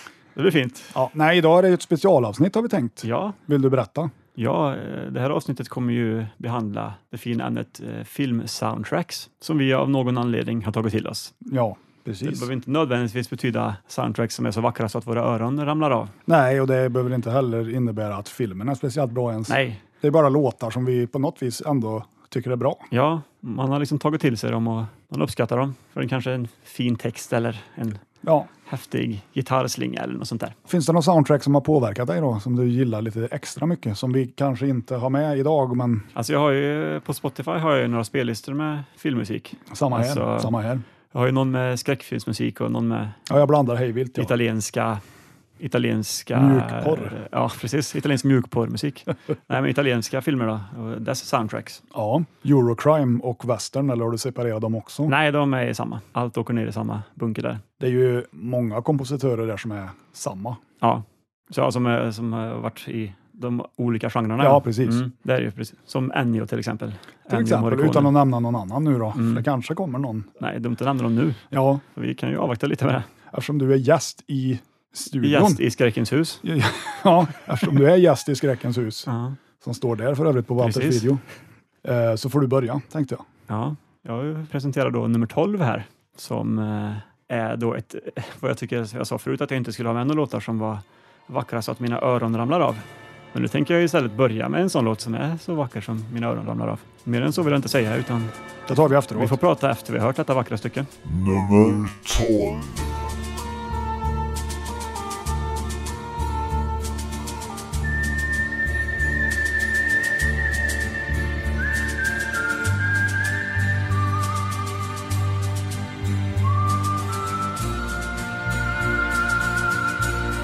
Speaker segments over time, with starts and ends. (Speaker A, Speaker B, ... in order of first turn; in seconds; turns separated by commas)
Speaker A: 0.3-0.9, Speaker B: 0.9-4.1, Speaker A: 3.0-3.4, Speaker A: 4.3-11.3, Speaker B: 11.4-12.5, Speaker A: 12.2-16.1, Speaker B: 16.3-22.8, Speaker A: 19.5-19.8, Speaker A: 22.9-28.0, Speaker B: 28.2-28.5, Speaker A: 28.6-30.6, Speaker B: 30.7-36.1, Speaker A: 36.1-40.5, Speaker B: 39.7-40.8, Speaker A: 41.1-43.2, Speaker B: 43.3-44.3, Speaker A: 44.1-45.0, Speaker A: 45.6-51.8, Speaker B: 46.3-47.1, Speaker B: 51.9-55.1, Speaker A: 55.1-57.6, Speaker B: 57.8-60.6, Speaker A: 60.8-68.2, Speaker B: 64.4-65.0, Speaker B: 67.3-70.3, Speaker A: 69.1-69.4, Speaker A: 70.4-71.4, Speaker B: 71.5-71.8, Speaker A: 71.9-73.1, Speaker B: 73.3-75.6, Speaker A: 75.2-76.4, Speaker B: 76.4-79.1, Speaker A: 79.1-79.4, Speaker B: 79.6-81.2, Speaker A: 80.6-81.1, Speaker B: 81.8-83.2, Speaker A: 83.5-98.3, Speaker B: 98.7-99.4, Speaker A: 99.1-100.9, Speaker C: 101.0-103.0